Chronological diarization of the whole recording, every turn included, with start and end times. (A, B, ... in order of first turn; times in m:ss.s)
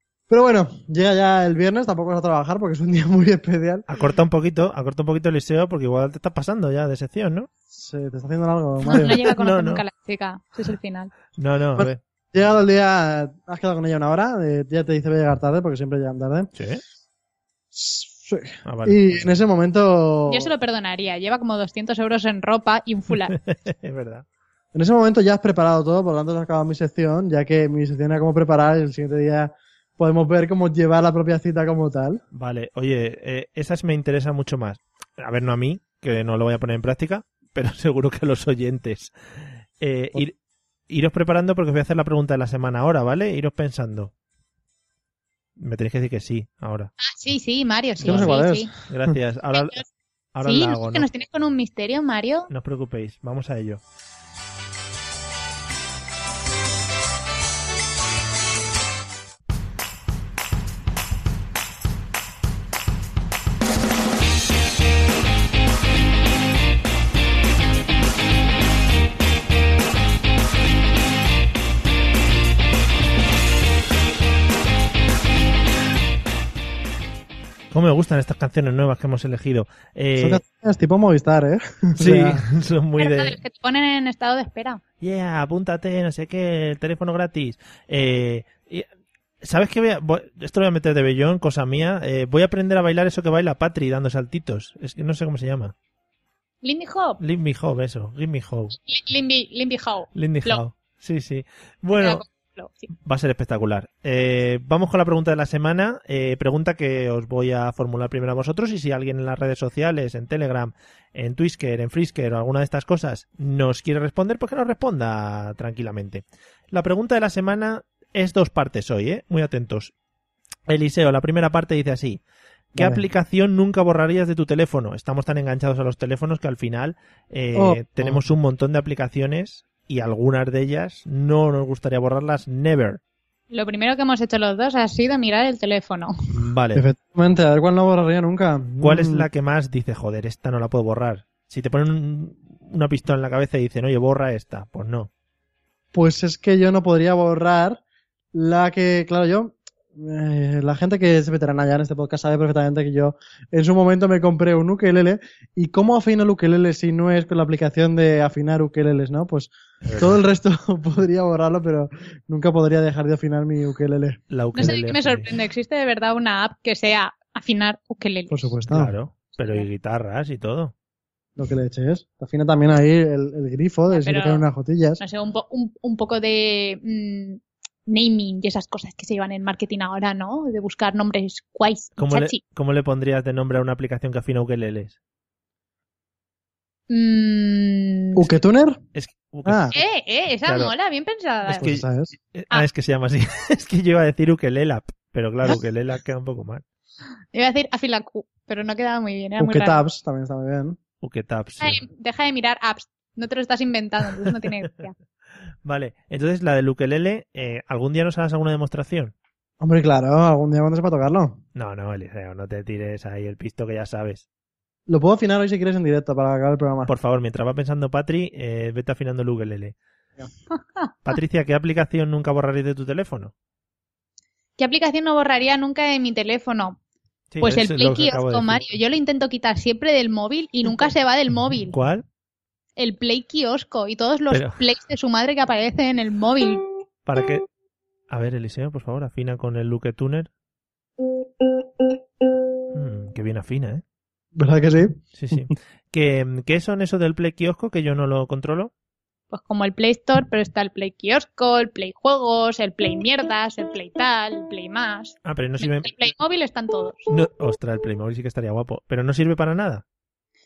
0:00.3-0:03.9 A
0:03.9-0:07.5 B
0:07.7-0:09.2 A
0:08.8-0:11.1 C
0:09.0-0:09.8 B
0:11.4-0:12.0 B
0:11.8-0:16.5 A
0:16.6-0:16.8 B
0:17.7-0:20.5 A
0:18.6-0:19.3 B
0:20.3-0:23.4 C
0:23.3-0:24.2 B
0:24.7-0:32.2 A
0:32.3-0:39.1 B
0:39.8-0:40.3 B
0:40.9-0:44.1 B
0:45.6-0:46.9 B
0:47.0-0:48.7 C
0:48.0-0:49.1 A
0:48.0-0:49.8 B
0:49.5-0:49.8 C
0:50.3-0:51.1 B
0:50.4-0:52.5 C
0:52.5-0:53.8 B
1:17.7-1:20.4 B
1:20.2-1:22.4 A
1:22.0-1:23.4 B
1:23.0-1:24.8 C
1:25.0-1:28.9 B
1:29.4-1:35.7 B
1:36.6-1:37.2 C
1:37.2-1:38.8 B
1:38.8-1:40.6 C
1:40.2-1:42.2 B
1:42.0-1:42.9 C
1:43.0-1:59.9 B
2:00.7-2:02.2 B
2:02.7-2:13.0 B
2:02.8-2:03.1 A
2:07.6-2:08.2 A
2:13.5-2:16.1 C
2:16.3-2:16.8 B
2:16.8-2:19.3 A
2:18.8-2:25.1 B
2:25.9-2:27.8 A
2:28.3-2:44.2 A
2:39.8-2:40.2 B
2:44.3-2:45.3 B
2:44.6-2:48.5 C
2:48.3-2:48.9 A
2:48.7-2:50.7 B
2:49.4-2:49.7 C
2:51.4-2:55.0 A
2:53.9-2:54.5 C
2:55.0-3:02.4 C
3:02.0-3:05.0 B
3:06.9-3:08.3 C
3:08.2-3:08.8 A
3:09.0-3:09.8 B
3:09.5-3:09.8 A
3:09.8-3:11.7 C
3:10.5-3:10.7 B
3:11.5-3:12.1 A
3:11.6-3:16.6 B
3:17.3-3:19.8 C
3:19.4-3:20.8 A
3:21.0-3:21.8 B
3:21.6-3:24.9 C
3:25.6-3:29.1 B
3:29.6-3:31.4 A
3:31.6-3:34.2 B
3:34.9-3:36.9 A
3:36.9-3:39.8 B
3:40.5-3:40.9 C
3:41.0-3:43.3 B
3:44.6-3:46.8 C
3:47.3-3:48.7 B
3:47.4-3:51.8 C
3:51.7-3:52.0 B
3:52.8-3:56.6 C
3:54.3-3:54.6 B
3:57.1-3:57.4 B
3:58.1-4:00.3 B
4:02.7-4:03.8 B
4:04.4-4:05.5 A
4:05.2-4:08.7 B
4:09.3-4:17.1 C
4:15.2-4:16.1 B
4:17.1-4:19.8 B